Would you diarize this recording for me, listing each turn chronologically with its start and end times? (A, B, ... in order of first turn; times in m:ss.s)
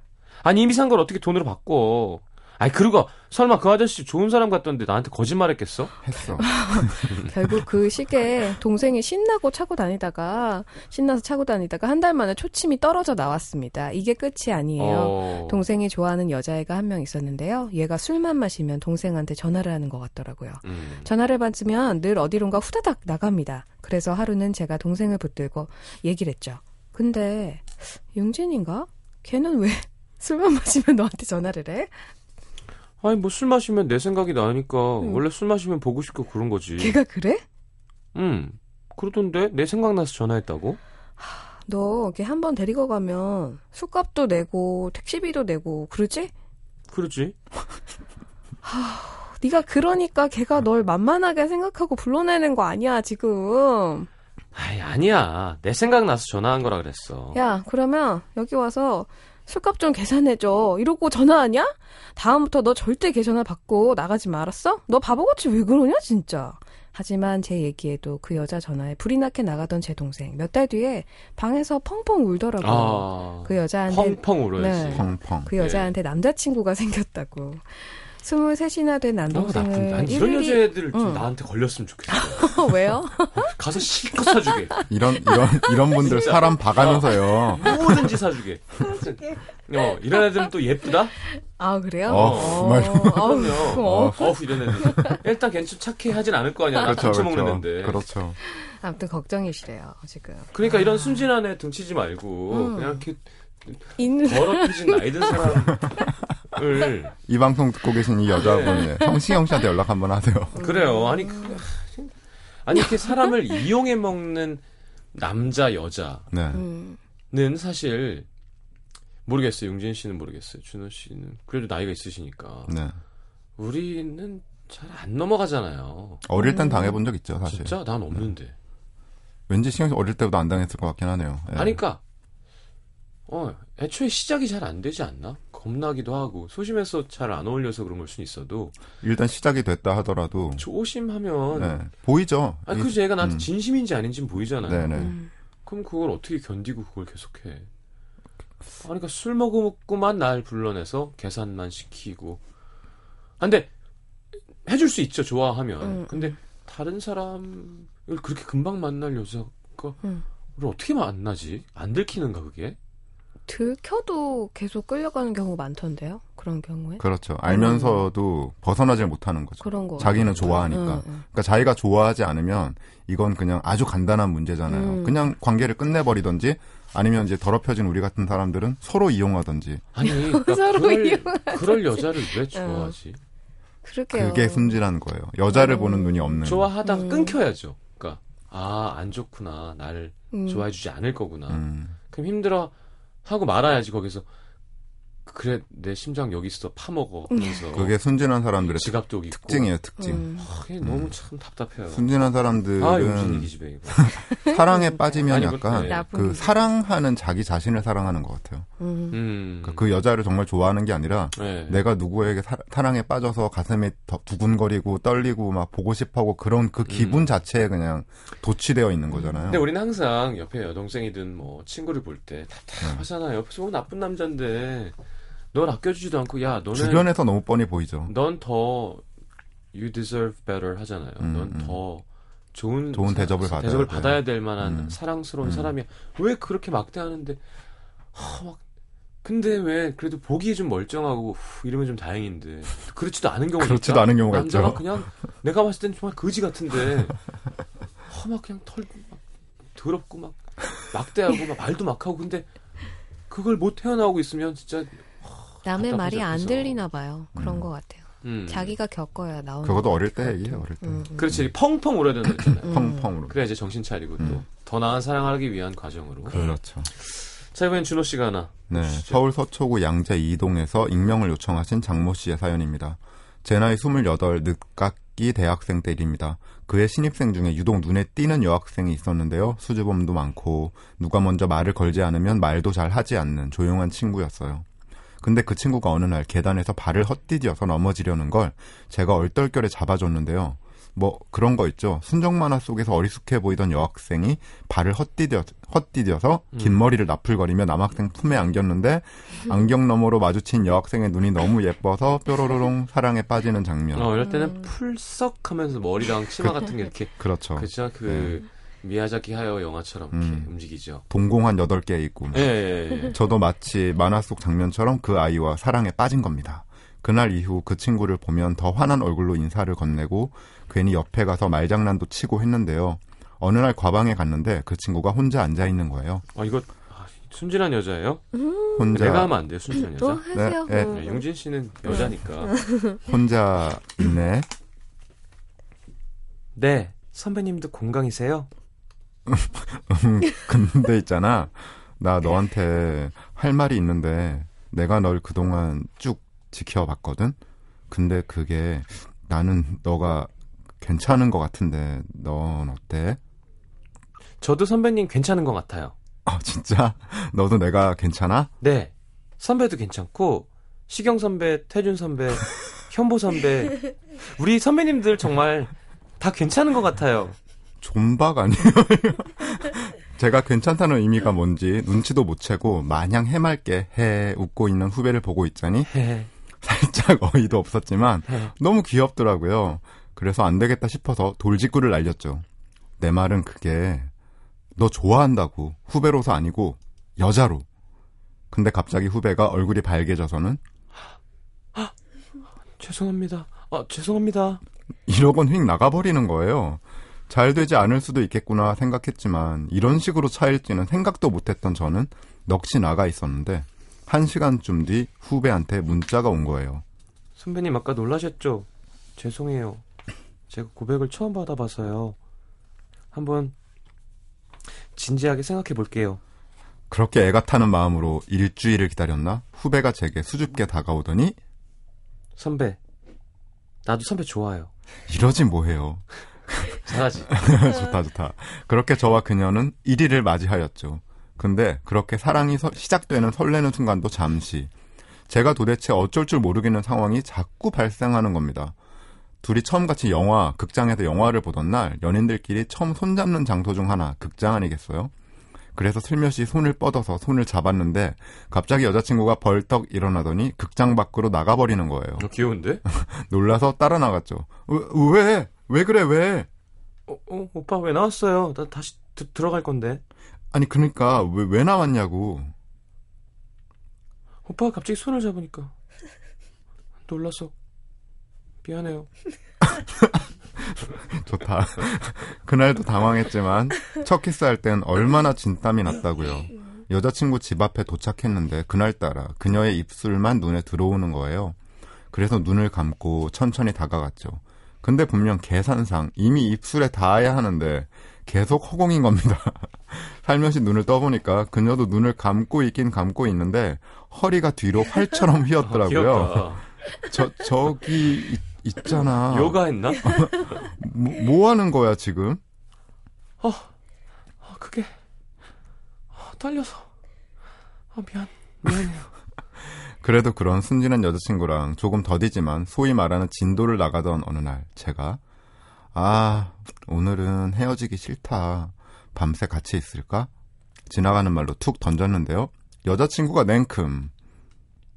0:00.4-0:06.0 A
0:06.0-0:07.2 B
0:06.4-0:31.9 C
0:14.8-0:15.6 A
0:20.6-0:21.1 A
0:33.0-0:37.0 A
0:36.8-0:37.4 C
0:38.1-0:40.8 A
0:41.2-0:46.3 C
0:46.9-0:47.4 A
0:48.6-0:54.1 C
0:54.5-0:57.4 A
0:57.3-1:21.3 C
1:12.6-1:15.9 A
1:14.8-1:15.5 B
1:19.3-1:22.6 A
1:22.1-1:23.5 C
1:23.3-1:24.8 A
1:24.8-1:26.3 C
1:24.9-1:27.8 B
1:26.0-1:31.2 A
1:31.3-1:35.2 C
1:32.0-1:35.0 B
1:32.1-1:38.0 A
1:36.8-1:38.4 B
1:38.4-1:41.3 C
1:40.5-1:46.0 A
1:42.5-1:43.0 C
1:44.0-1:45.5 C
1:46.5-1:47.1 A
1:47.3-1:50.7 B
1:48.4-1:48.9 A
1:50.6-1:51.6 C
1:50.6-1:52.1 A
1:52.6-1:54.6 A
1:55.1-1:56.3 A
1:56.3-1:56.6 B
1:56.5-1:57.0 C
1:57.3-1:58.2 A
1:59.2-2:02.8 A
2:02.7-2:03.0 B
2:03.6-2:06.2 A
2:06.2-2:08.2 B
2:06.4-2:07.0 C
2:07.4-2:08.5 A
2:09.5-2:11.8 B
2:11.5-2:12.0 A
2:13.3-2:18.7 A
2:19.0-2:20.7 B
2:20.6-2:21.8 A
2:21.5-2:23.5 B
2:22.7-2:25.1 A
2:24.6-2:25.2 B
2:25.0-2:25.3 C
2:25.6-2:27.7 A
2:28.8-2:32.4 A
2:33.4-2:33.7 A
2:34.6-2:40.0 A
2:35.8-2:36.4 C
2:40.6-2:42.8 A
2:43.5-2:48.1 C
2:47.0-2:59.8 B
2:49.6-2:51.2 C
2:50.0-2:50.7 A
2:54.7-2:55.3 C
2:59.9-3:03.2 A
3:00.0-3:02.9 C
3:03.8-3:04.8 C
3:04.1-3:06.7 B
3:05.5-3:07.4 C
3:06.4-3:12.7 A
3:10.3-3:10.6 C
3:11.5-3:11.9 B
3:13.2-3:14.2 A
3:15.2-3:18.0 A
3:17.3-3:17.6 C
3:17.7-3:20.3 B
3:18.7-3:22.1 A
3:20.0-3:20.4 C
3:20.8-3:21.1 B
3:21.9-3:28.7 B
3:22.8-3:24.1 A
3:24.3-3:26.6 C
3:25.3-3:26.1 A
3:28.8-3:29.2 C
3:29.1-3:29.9 A
3:29.6-3:39.7 B
3:31.4-3:31.8 A
3:36.9-3:37.3 A
3:39.1-3:39.4 C
3:39.5-3:44.9 A
3:45.5-3:47.1 A
3:46.7-3:48.1 B
3:48.0-3:49.0 A
3:49.7-3:57.4 A
3:51.2-3:51.8 B
3:52.9-3:55.7 B
3:58.1-3:58.6 A
3:59.2-4:07.2 A
4:03.6-4:05.1 B
4:08.1-4:09.2 A
4:09.7-4:12.5 A
4:13.3-4:16.8 A
4:15.6-4:21.3 C
4:17.3-4:17.7 B
4:18.2-4:18.8 A
4:19.6-4:21.5 B
4:21.2-4:29.2 A
4:22.4-4:23.4 B
4:22.6-4:23.1 C
4:24.2-4:24.4 B
4:26.3-4:26.9 B
4:28.7-4:44.6 B
4:45.2-5:04.2 B
4:56.5-4:56.8 A
5:03.9-5:11.0 A
5:07.2-5:08.4 B
5:10.1-5:10.5 B
5:11.1-5:26.2 B
5:12.3-5:13.2 A
5:26.3-5:28.2 A
5:28.3-5:28.8 C
5:28.7-5:29.4 B
5:28.9-5:30.2 A
5:29.9-5:31.2 C
5:30.3-5:31.0 B
5:30.8-5:32.6 A
5:31.9-5:32.9 C
5:33.0-5:34.5 B
5:36.6-5:38.5 A
5:39.3-5:47.4 B
5:47.9-5:53.2 B
5:54.4-5:55.9 A
5:56.2-5:58.5 B
5:58.6-6:07.4 A
6:07.8-6:15.9 B
6:15.9-6:16.3 A
6:16.6-6:22.4 B
6:18.3-6:18.5 A
6:23.0-6:24.1 B
6:24.8-6:27.6 B
6:28.5-6:30.6 B
6:32.8-6:34.6 A
6:35.1-6:46.8 B
6:47.4-6:49.8 A
6:50.5-6:52.2 A
6:53.1-6:53.5 A
6:54.9-6:56.2 A
6:56.9-7:01.4 B
7:02.4-7:02.8 A
7:03.8-7:04.7 A
7:05.1-7:14.7 B
7:06.8-7:07.5 A
7:15.3-7:18.7 B
7:19.4-7:25.1 B
7:25.7-7:32.3 B
7:32.2-7:32.8 A
7:32.9-7:36.5 B
7:37.1-7:40.0 A
7:40.5-7:42.5 B
7:44.4-7:45.7 A
7:47.1-7:47.5 A
7:48.6-7:49.1 A
7:49.6-8:01.6 B
8:02.1-8:22.4 B
8:15.6-8:16.6 A
8:19.0-8:20.6 A
8:23.4-8:23.7 A
8:24.4-8:24.9 A
8:26.1-8:26.9 A
8:27.9-8:29.1 A
8:30.0-8:35.2 B
8:35.9-8:40.3 B
8:40.9-8:44.1 B